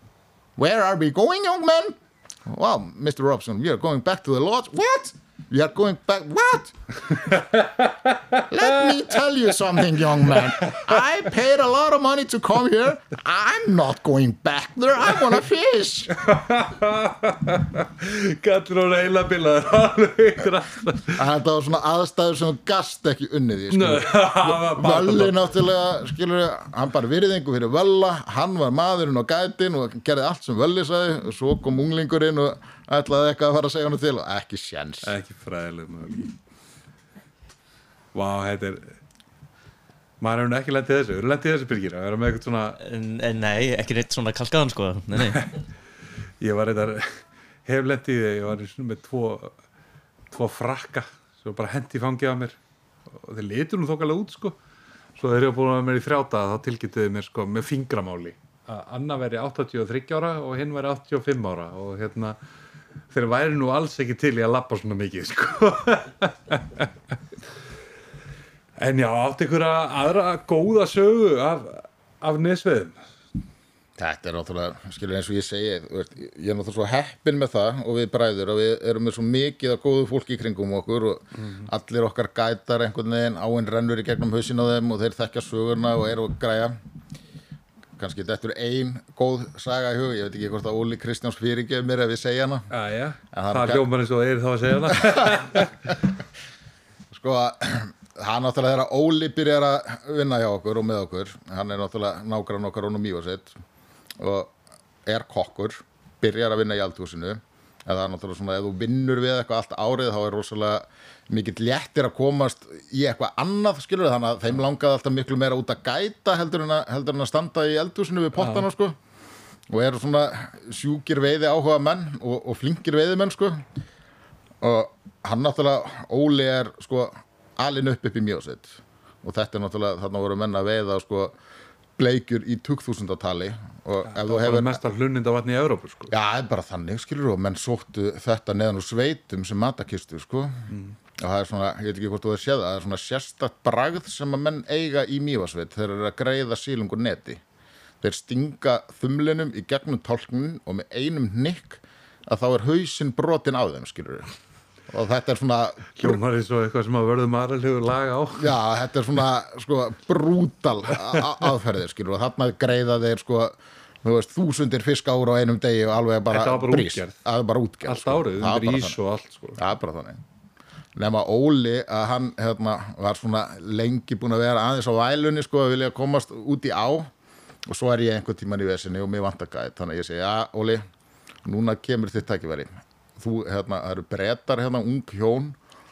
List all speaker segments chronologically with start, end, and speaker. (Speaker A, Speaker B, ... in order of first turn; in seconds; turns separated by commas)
Speaker A: 0.6-7.1, Speaker B: 7.3-8.5, Speaker A: 8.4-16.4, Speaker B: 10.4-10.9, Speaker B: 16.2-21.2, Speaker A: 21.2-35.1, Speaker B: 23.7-25.4, Speaker B: 35.0-36.4, Speaker B: 38.1-39.0, Speaker B: 40.2-42.8, Speaker C: 42.8-45.5, Speaker B: 46.4-49.6, Speaker B: 50.3-54.6, Speaker B: 55.2-62.4, Speaker B: 63.1-66.9, Speaker B: 68.8-73.0, Speaker A: 74.0-86.8, Speaker B: 81.4-81.7, Speaker A: 88.0-92.7, Speaker B: 92.7-95.9, Speaker A: 93.3-93.9, Speaker A: 95.0-95.6, Speaker A: 97.1-103.6, Speaker A: 104.2-104.5, Speaker A: 105.1-119.0, Speaker B: 118.4-118.7, Speaker A: 119.7-123.7, Speaker A: 124.6-131.4, Speaker A: 132.0-134.8, Speaker B: 134.1-136.1, Speaker A: 136.1-147.4, Speaker B: 140.7-140.9, Speaker A: 148.0-154.3, Speaker A: 154.9-156.2, Speaker B: 155.9-158.6, Speaker A: 158.4-169.0, Speaker B: 166.3-167.2, Speaker B: 167.9-169.6, Speaker A: 169.6-170.2, Speaker A: 170.9-177.1, Speaker A: 177.7-180.8, Speaker A: 181.4-185.6